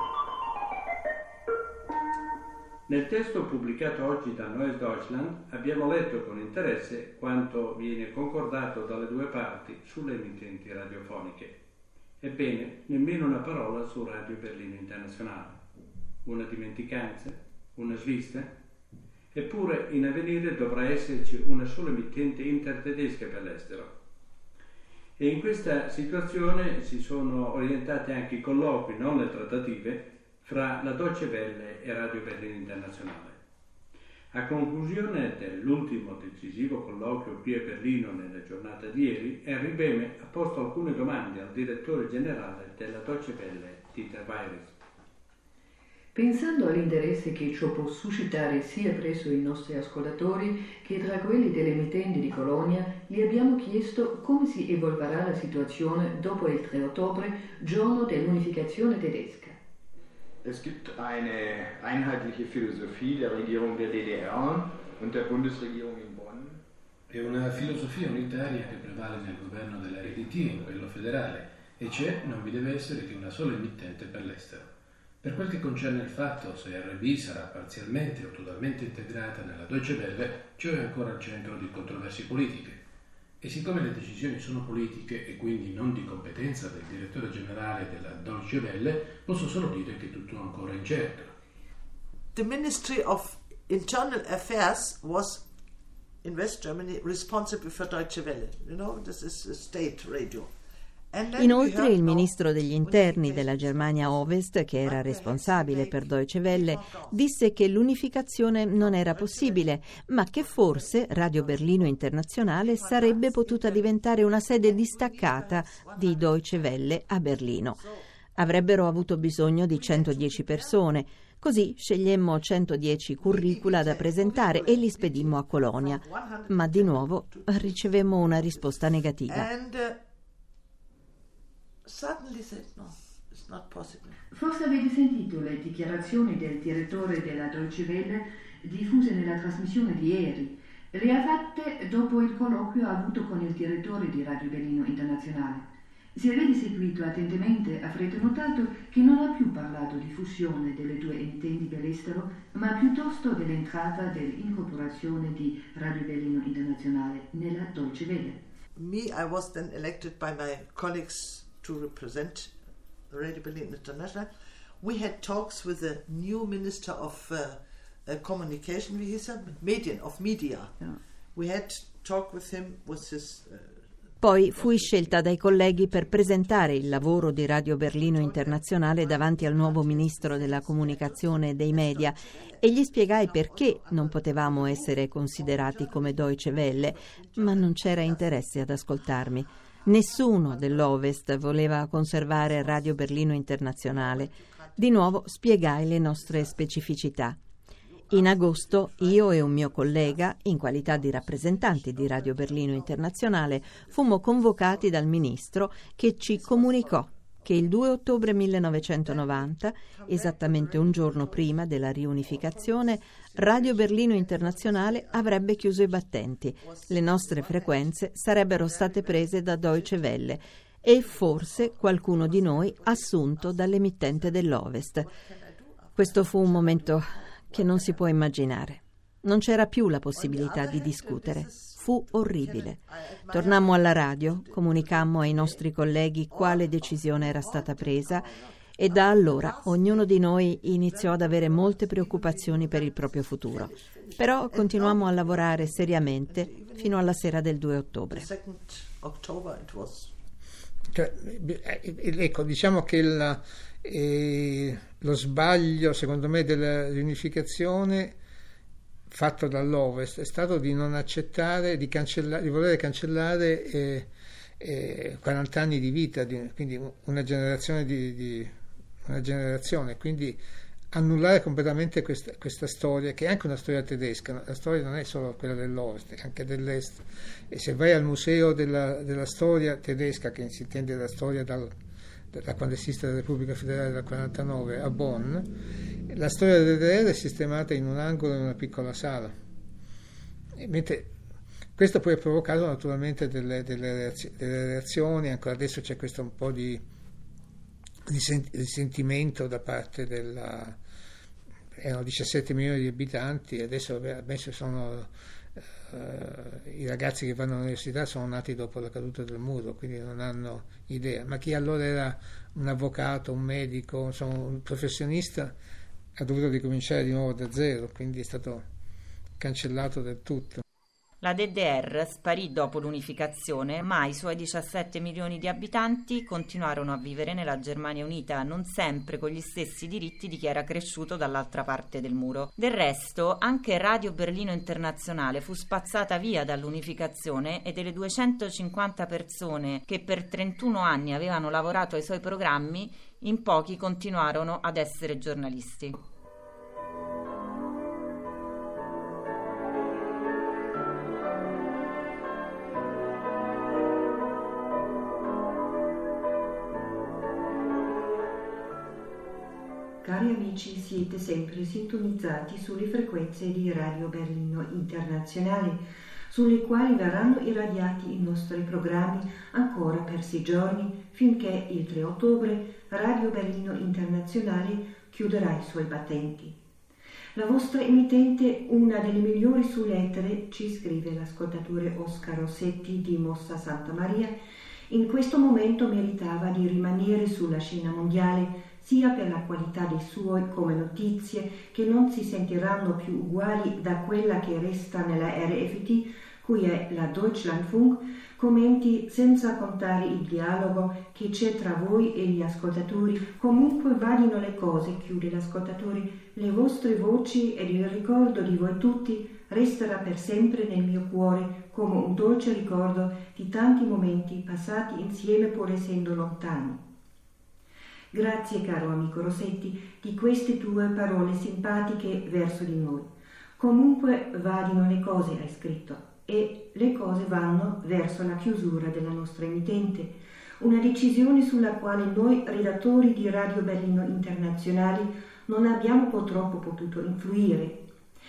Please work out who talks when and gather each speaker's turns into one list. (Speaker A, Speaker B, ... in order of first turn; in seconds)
Speaker A: 2.9-11.5, 12.2-15.6, 16.2-18.5, 19.3-23.9, 25.2-33.4, 34.3-44.8
Speaker B: 46.1-59.6, 134.3-158.4
Speaker C: 60.4-66.6
Speaker D: 67.1-74.7, 75.2-82.8, 83.4-91.3
Speaker E: 92.3-95.5, 96.2-100.5, 101.1-104.2, 104.8-107.2, 108.8-109.8, 110.4-116.8, 117.7-118.0, 119.7-120.8, 123.2-130.0, 131.8-134.2, 158.8-162.5, 163.1-173.9, 174.6-175.1, 175.9-176.6, 177.9-188.5, 190.0-190.9, 192.3-193.2, 193.8-195.2, 196.1-196.9, 198.0-204.9, 206.3-207.1, 209.0-211.6, 212.2-218.0, 218.6-219.9, 221.0-228.0, 230.1-235.6, 236.3-240.2, 240.7-247.0, 248.1-250.1
Speaker F: 101.4-117.8, 118.3-129.5, 174.2-197.4, 198.1-225.1, 226.0-248.3
Speaker G: 250.9-258.2, 259.1-268.5, 269.1-270.4, 270.9-281.7, 282.3-285.5, 286.1-289.3, 290.6-291.1, 291.8-296.8, 298.1-300.8, 301.8-305.1, 305.8-315.5, 316.2-318.6, 319.4-320.6
Speaker H: 321.2-346.0
Speaker I: 360.0-376.5, 377.3-384.4, 384.9-416.8, 418.1-437.8